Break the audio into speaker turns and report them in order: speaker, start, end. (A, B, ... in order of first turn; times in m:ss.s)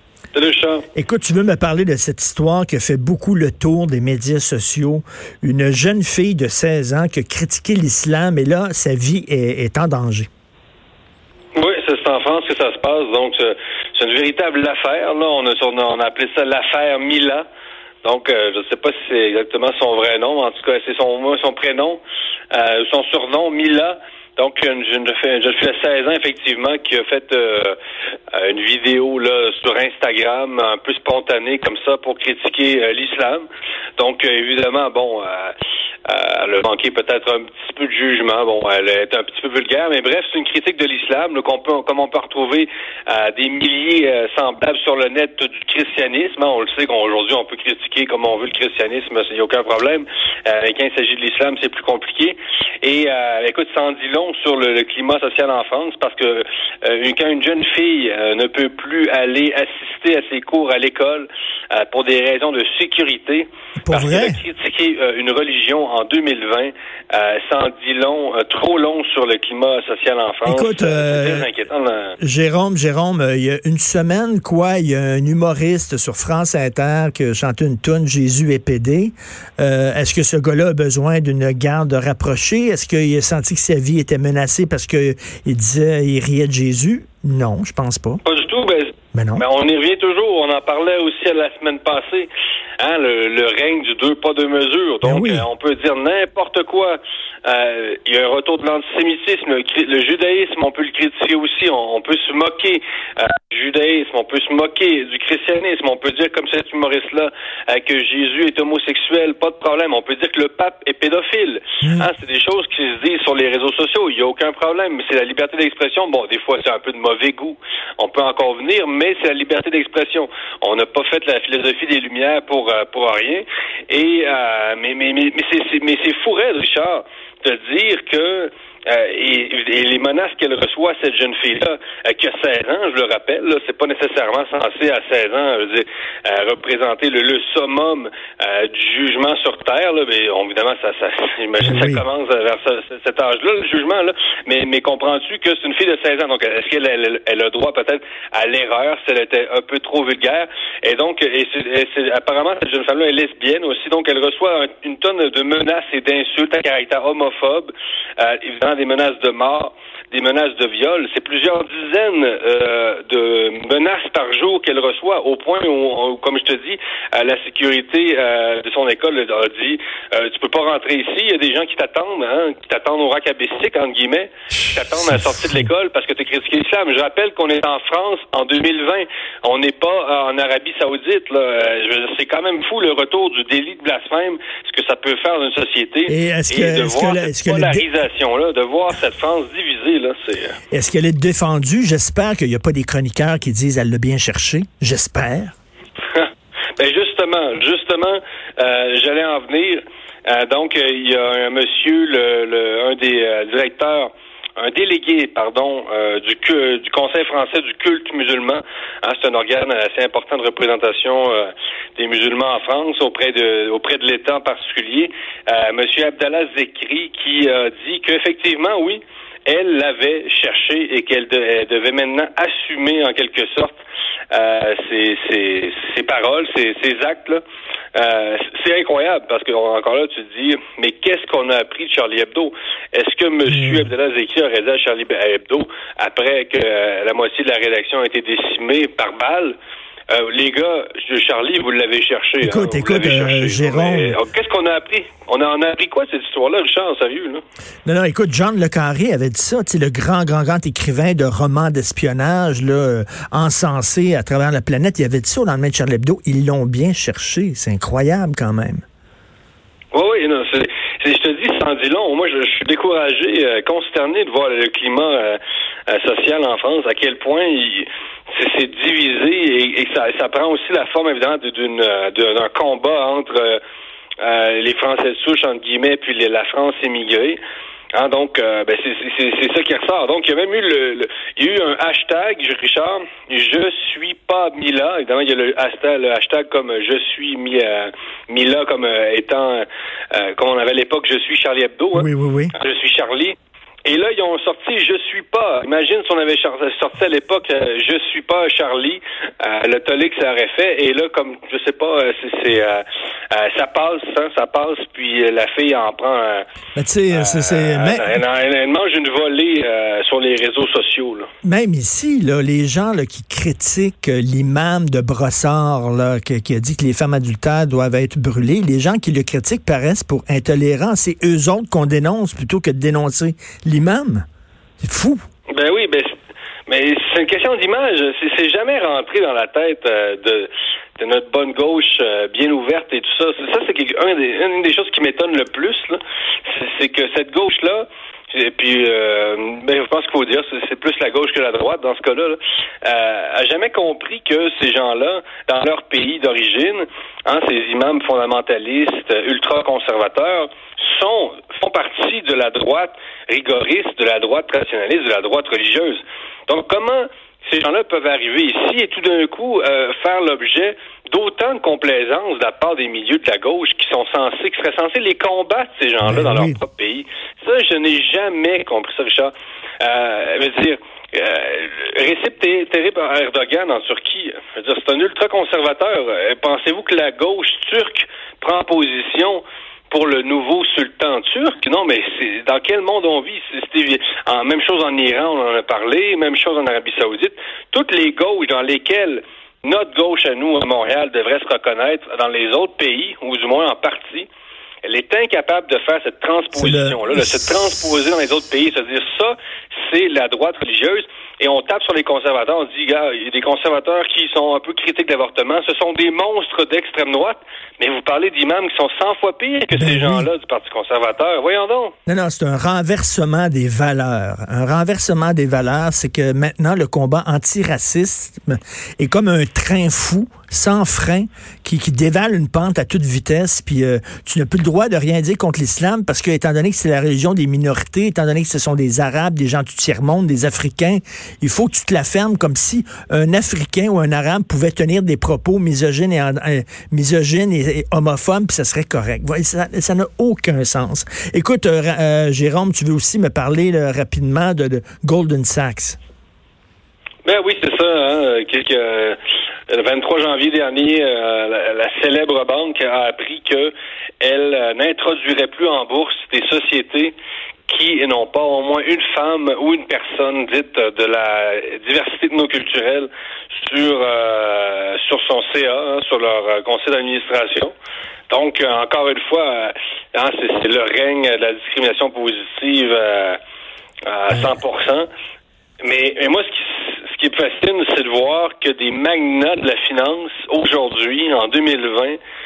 0:00.3-0:00.8 A
0:01.0-0:10.3 B
0:11.6-0:17.5 A
0:18.0-0:22.0 A
0:22.5-0:27.8 A
0:28.3-1:12.2 A
1:03.8-1:04.4 B
1:10.4-1:11.5 B
1:12.2-1:28.2 B
1:28.2-3:10.6 A
1:29.1-1:29.4 B
1:35.0-1:35.5 B
2:21.6-2:22.0 B
3:06.1-3:07.9 B
3:10.7-3:15.5 B
3:16.1-3:43.8 A
3:44.3-3:47.4 A
3:48.0-3:59.6 A
3:53.5-3:53.9 B
4:00.1-4:07.4 A
4:02.4-4:04.2 B
4:07.8-4:18.8 B
4:19.9-4:33.6 A
4:34.2-4:37.4 A
4:38.0-5:06.4 A
4:51.9-4:52.6 B
5:06.8-5:08.2 B
5:07.1-5:11.3 A
5:11.4-5:24.3 B
5:24.8-5:25.2 B
5:25.5-5:26.1 A
5:26.7-6:34.3 A
6:06.0-6:06.6 B
6:34.8-6:52.0 A
6:36.5-6:37.4 B
6:49.7-6:50.3 B
6:52.1-7:26.0 B
7:27.2-7:29.2 A
7:29.7-7:37.1 A
7:37.7-7:47.7 A
7:48.3-7:53.4 A
7:54.0-7:55.1 A
7:55.8-8:02.2 A